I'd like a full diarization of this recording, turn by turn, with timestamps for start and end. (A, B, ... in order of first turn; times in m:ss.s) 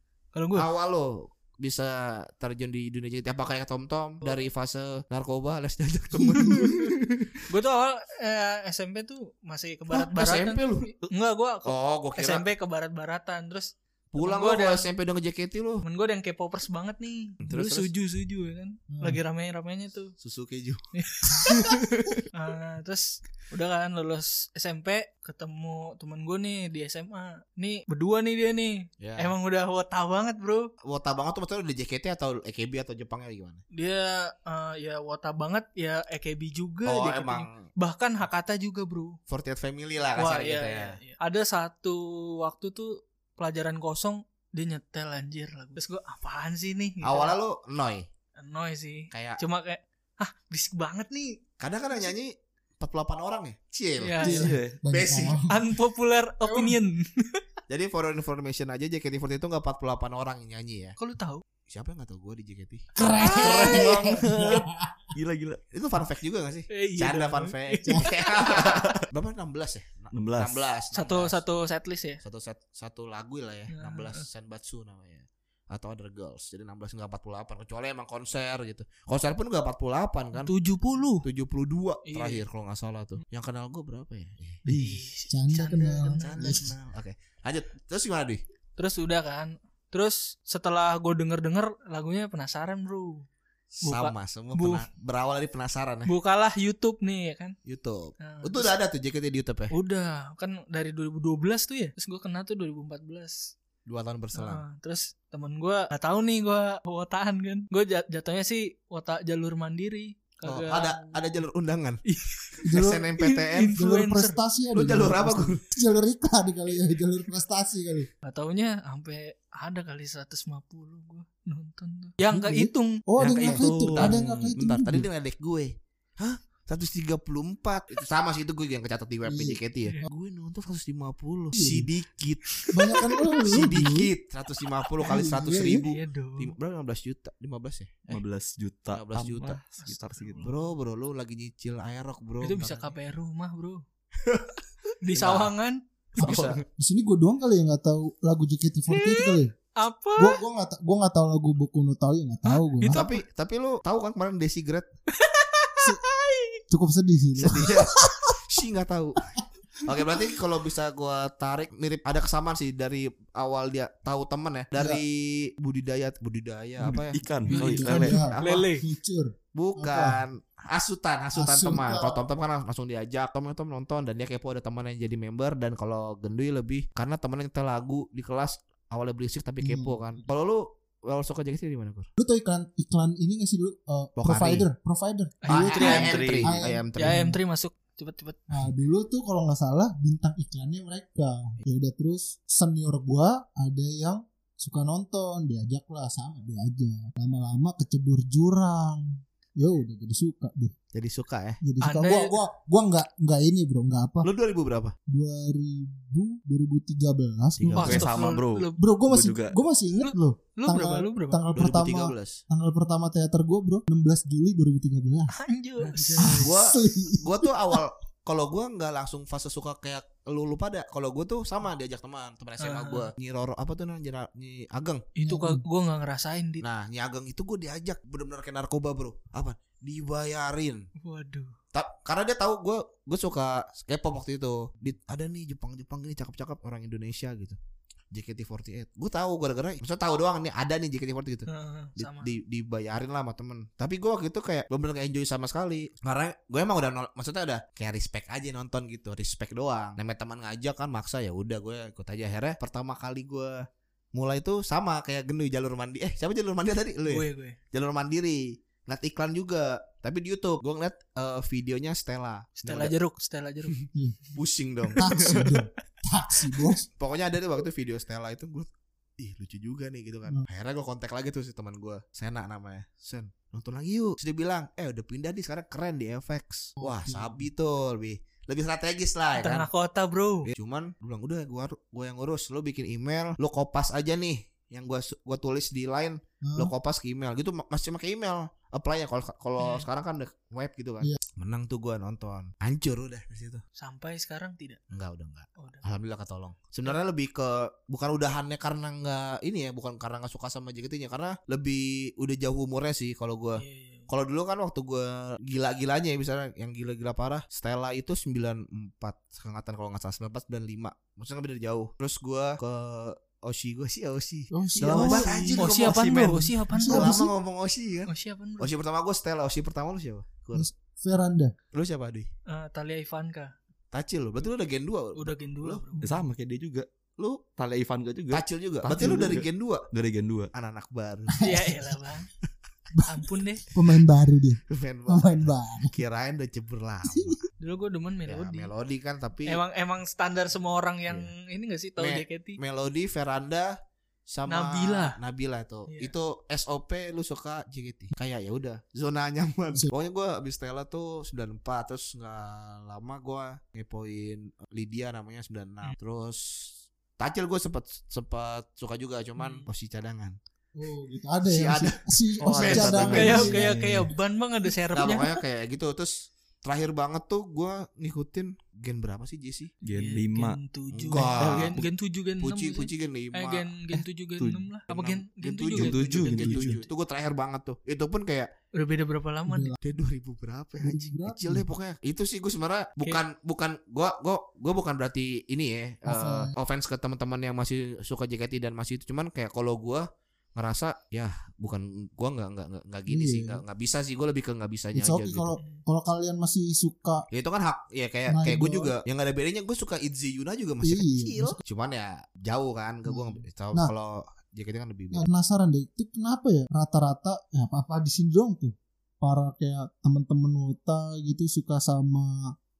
0:00.3-0:00.7 A
0:00.6-0:07.4 B
0:06.1-0:06.8 C
0:07.5-0:14.9 A
0:09.9-0:10.9 B
0:11.6-0:12.4 B
0:14.1-0:15.8 B
0:15.8-0:20.1 A
0:17.4-0:17.9 B
0:18.9-0:19.2 C
0:20.2-0:20.8 B
0:21.0-0:21.7 A
0:21.4-0:22.2 B
0:22.3-0:30.7 A
0:29.0-0:29.3 B
0:30.8-0:33.6 B
0:33.7-0:39.2 A
0:36.8-0:37.7 B
0:39.3-0:41.0 B
0:40.1-0:47.3 A
0:47.0-0:48.1 B
0:48.4-0:51.4 A
0:49.1-0:49.4 B
0:51.6-0:55.4 B
0:54.0-0:54.5 A
0:54.2-0:55.7 C
0:54.2-0:54.8 D
0:55.2-0:57.4 A
0:56.4-0:56.8 C
0:57.7-1:01.0 B
1:01.0-1:01.4 A
1:01.7-1:03.8 B
1:02.9-1:05.1 C
1:03.0-1:03.9 A
1:03.2-1:05.6 D
1:05.7-1:11.4 B
1:06.7-1:08.7 A
1:10.1-1:10.6 D
1:10.9-1:12.2 A
1:12.2-1:20.5 B
1:13.7-1:14.2 A
1:20.4-1:21.2 A
1:21.2-1:24.6 B
1:22.0-1:22.4 A
1:24.6-1:25.0 D
1:24.7-1:26.6 A
1:24.8-1:26.7 C
1:26.2-1:28.4 B
1:28.8-1:33.3 A
1:33.8-1:34.8 A
1:33.8-1:36.1 B
1:36.0-1:37.5 A
1:37.6-1:39.7 B
1:38.2-1:38.7 A
1:39.7-1:43.5 A
1:43.8-1:44.6 B
1:44.3-1:51.2 A
1:50.4-1:52.0 B
1:52.0-1:52.6 A
1:52.6-1:53.1 C
1:52.7-1:53.8 B
1:53.2-1:54.4 A
1:53.7-1:58.1 C
1:54.7-1:55.6 B
1:58.2-2:03.5 A
2:02.3-2:05.1 C
2:03.2-2:04.5 D
2:03.4-2:12.7 B
2:09.2-2:09.6 C
2:11.5-2:11.9 C
2:12.6-2:13.4 A
2:12.7-2:14.1 C
2:13.4-2:18.1 B
2:15.0-2:15.8 C
2:15.7-2:16.5 A
2:18.1-2:20.5 D
2:18.9-2:19.6 B
2:19.8-2:20.7 A
2:20.4-2:22.9 B
2:22.4-2:23.8 A
2:24.2-2:24.6 B
2:25.0-2:25.8 A
2:25.1-2:25.5 B
2:26.2-2:26.6 B
2:26.2-2:29.5 C
2:26.2-2:26.5 D
2:28.9-2:30.4 A
2:30.2-2:33.1 C
2:32.4-2:33.2 A
2:32.9-2:34.9 B
2:35.1-2:36.6 A
2:36.7-2:38.3 C
2:37.4-2:47.2 B
2:44.8-2:45.0 C
2:46.8-2:48.2 D
2:47.5-2:50.2 C
2:47.5-2:48.8 A
2:47.9-2:48.7 B
2:49.5-3:02.1 B
2:51.3-2:52.2 C
2:59.6-3:00.2 C
3:02.2-3:07.4 C
3:04.2-3:04.6 B
3:05.4-3:06.4 A
3:05.5-3:07.2 B
3:05.8-3:06.5 D
3:07.0-3:08.5 A
3:08.5-3:20.7 C
3:20.9-3:21.6 B
3:21.6-3:24.3 C
3:21.8-3:22.4 A
3:24.2-3:24.9 B
3:25.1-3:28.2 C
3:27.6-3:28.1 B
3:27.7-3:29.6 D
3:27.8-3:28.8 A
3:28.8-3:35.3 C
3:30.0-3:31.4 A
3:31.5-3:32.4 B
3:35.3-3:36.5 A
3:35.9-3:36.4 D
3:36.2-3:37.8 C
3:36.4-3:45.0 B
3:42.6-3:43.1 A
3:45.1-3:46.6 A
3:45.2-3:45.6 C
3:46.6-3:50.9 B
3:51.0-3:51.5 A
3:51.7-3:57.6 B
3:58.1-4:22.9 B
4:01.5-4:02.3 A
4:17.1-4:17.6 A
4:22.6-4:23.8 A
4:24.4-4:25.6 B
4:25.0-4:26.9 C
4:27.0-4:39.7 B
4:36.8-4:37.4 C
4:39.4-4:40.5 A
4:40.4-4:53.6 B
4:46.4-4:46.7 C
4:49.6-4:49.8 A
4:53.8-4:54.8 A
4:54.9-5:20.7 B
4:55.6-4:55.8 A
5:03.6-5:04.1 A
5:14.5-5:15.9 C
5:14.8-5:17.2 A
5:15.8-5:16.3 D
5:16.7-5:17.3 C
5:18.1-5:18.7 A
5:20.5-5:21.5 C
5:21.7-5:22.3 B
5:22.5-5:23.5 A
5:23.9-5:25.8 B
5:25.2-5:26.0 A
5:26.0-5:26.9 D
5:27.2-5:27.4 B
5:27.6-5:30.5 D
5:28.3-5:29.8 B
5:29.0-5:29.4 C
5:30.5-5:31.4 B
5:31.3-5:31.9 C
5:31.4-5:32.3 A
5:32.9-5:35.9 C
5:33.0-5:33.7 A
5:34.7-5:37.4 B
5:37.1-5:37.4 C
5:37.6-5:38.7 A
5:38.3-5:39.6 B
5:39.4-5:42.6 A
5:42.0-5:43.8 B
5:44.3-6:00.4 B
5:44.5-5:45.2 A
5:45.9-5:46.1 A
5:59.4-5:59.7 A
6:00.7-6:04.0 C
6:01.5-6:03.5 B
6:02.4-6:04.1 D
6:03.1-6:05.3 A
6:04.9-6:09.7 B
6:09.8-6:10.6 D
6:09.9-6:16.8 A
6:10.9-6:11.8 B
6:11.4-6:11.8 D
6:12.4-6:13.7 B
6:13.9-6:14.6 D
6:14.9-6:18.5 B
6:15.7-6:16.8 D
6:18.7-6:19.7 A
6:19.5-6:19.8 C
6:19.8-6:35.6 B
6:20.8-6:21.7 C
6:26.0-6:26.5 C
6:33.1-6:33.6 C
6:34.9-6:37.3 C
6:37.3-6:45.2 B
6:38.3-6:38.9 C
6:40.8-6:41.6 C
6:43.0-6:43.9 C
6:45.1-6:52.5 C